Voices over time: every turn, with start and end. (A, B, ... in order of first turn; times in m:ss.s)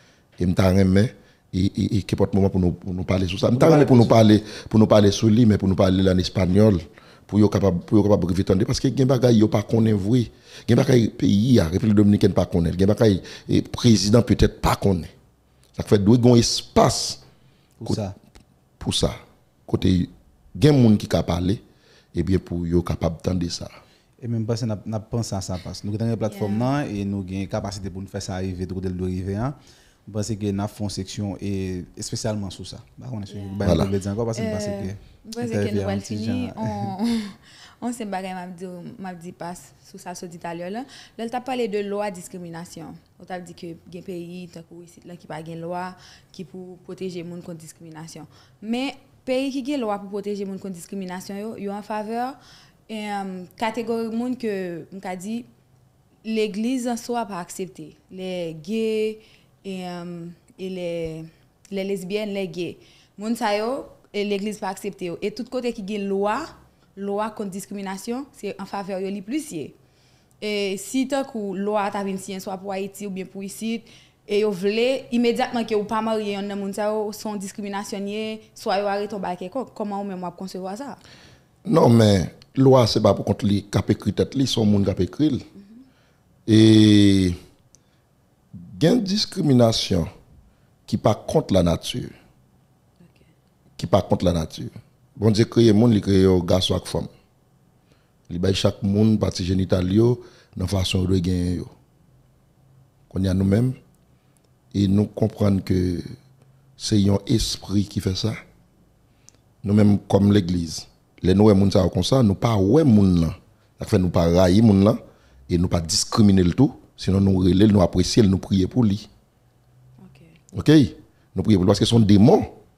0:00.4-0:15.1 A
0:03.5-0:04.1 B
0:15.7-0:17.2 A
0:17.8-0:18.1 B
0:18.8-0:21.6 A
0:22.1-0:23.7 A
0:24.2-0:36.9 B
0:26.3-0:26.7 C
0:33.3-0:33.7 C
0:33.6-0:33.9 A
0:34.4-0:52.4 C
0:52.9-0:55.5 C
0:56.2-1:09.8 C
1:10.4-1:21.0 C
1:21.6-1:25.4 A
1:26.5-1:27.4 A
1:28.6-1:30.1 A
1:30.9-1:32.1 A
1:33.0-1:33.3 C
1:33.8-1:37.1 A
1:38.3-1:41.7 A
1:43.1-1:43.8 A
1:44.7-1:46.1 A
1:46.8-1:48.4 A
1:49.6-1:59.1 A
2:00.0-2:00.4 C
2:00.5-2:02.5 A